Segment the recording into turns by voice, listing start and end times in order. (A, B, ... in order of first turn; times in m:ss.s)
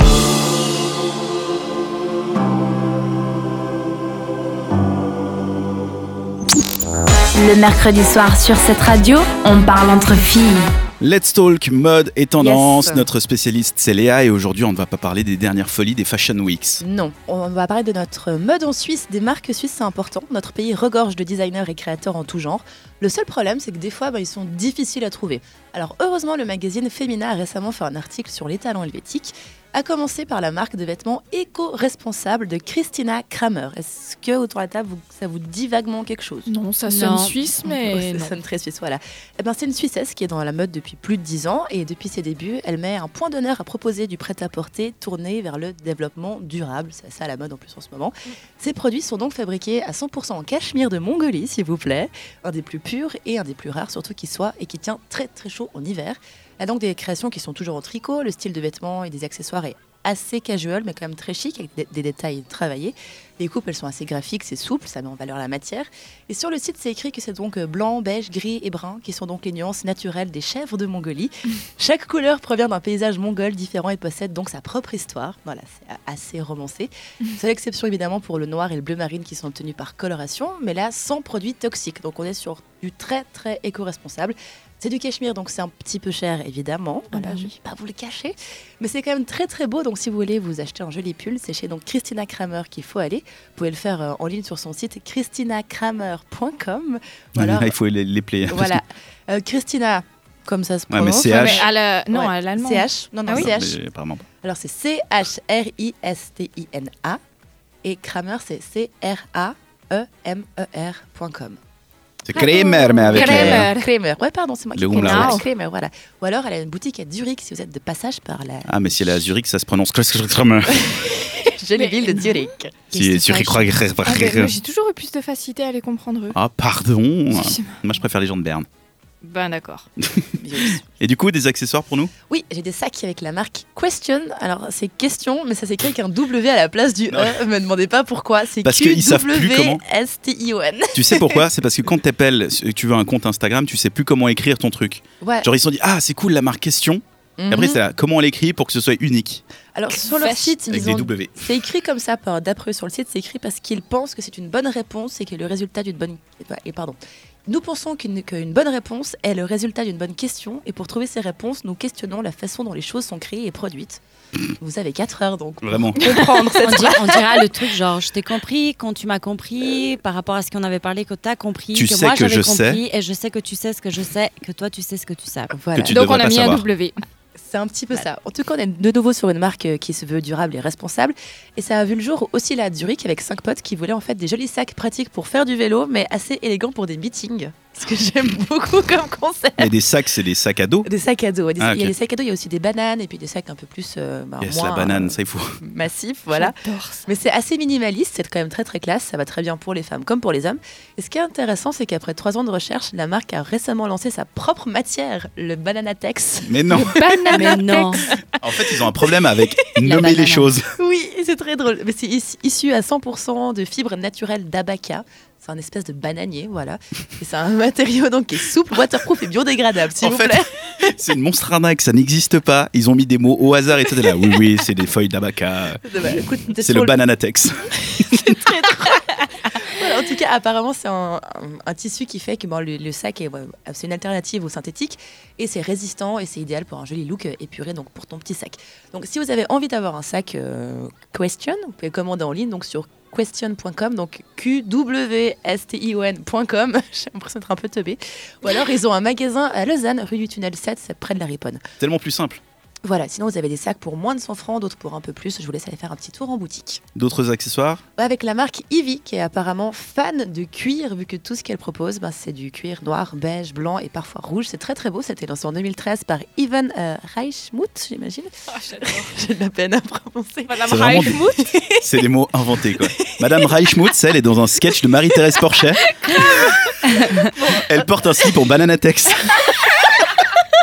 0:07.4-0:10.7 A
0:11.0-0:16.8 B
0:12.4-0:13.1 C
0:16.8-0:36.5 C
0:36.5-0:38.4 D
0:36.9-0:37.4 E
0:37.6-1:37.8 C
1:27.1-1:27.5 D
1:37.4-1:38.8 B
1:38.5-1:43.8 C
1:40.9-1:41.7 B
1:41.3-1:43.6 D
1:43.3-1:44.2 B
1:44.4-1:47.2 C
1:47.8-1:51.6 C
1:52.2-1:53.7 B
1:52.3-1:53.9 D
1:53.1-1:59.3 C
1:54.8-1:55.4 B
1:55.0-1:55.5 D
1:58.7-2:01.2 B
2:00.7-2:02.9 C
2:01.8-2:02.4 D
2:02.9-2:03.8 E
2:02.9-2:04.6 B
2:04.0-2:06.4 D
2:06.3-2:08.7 B
2:07.3-2:07.8 D
2:09.2-2:09.9 D
2:10.0-2:10.3 B
2:10.4-2:10.8 C
2:11.0-2:12.1 B
2:12.3-2:21.4 C
2:18.6-2:19.8 B
2:20.9-2:29.4 B
2:25.2-2:25.5 C
2:27.4-2:27.8 C
2:29.8-2:44.0 C
2:30.1-2:30.6 D
2:30.7-2:31.4 B
2:44.6-2:47.4 C
2:45.6-2:46.0 B
2:46.0-2:46.6 D
2:46.6-2:55.6 E
2:51.7-2:52.8 B
2:55.5-2:56.0 C
2:55.8-2:56.6 B
2:55.9-2:57.0 D
2:57.4-3:09.7 C
3:09.6-3:10.9 B
3:10.8-3:28.2 C
3:11.6-3:11.9 B
3:14.4-3:15.6 B
3:16.3-3:17.1 D
3:26.5-3:27.0 B
3:26.7-3:28.1 D
3:27.3-3:28.0 E
3:28.4-3:30.7 B
3:29.8-3:30.5 E
3:30.8-3:40.9 C
3:40.0-3:45.8 B
3:45.8-3:47.0 C
3:46.6-3:48.4 B
3:47.8-4:11.6 C
4:11.8-4:12.4 B
4:12.8-4:16.8 C
4:17.0-4:17.8 B
4:18.0-4:31.8 C
4:28.5-4:29.1 D
4:30.5-4:31.8 D
4:30.7-4:31.3 B
4:31.8-4:35.8 B
4:36.1-4:36.5 D
4:36.1-4:36.5 C
4:37.5-4:39.4 B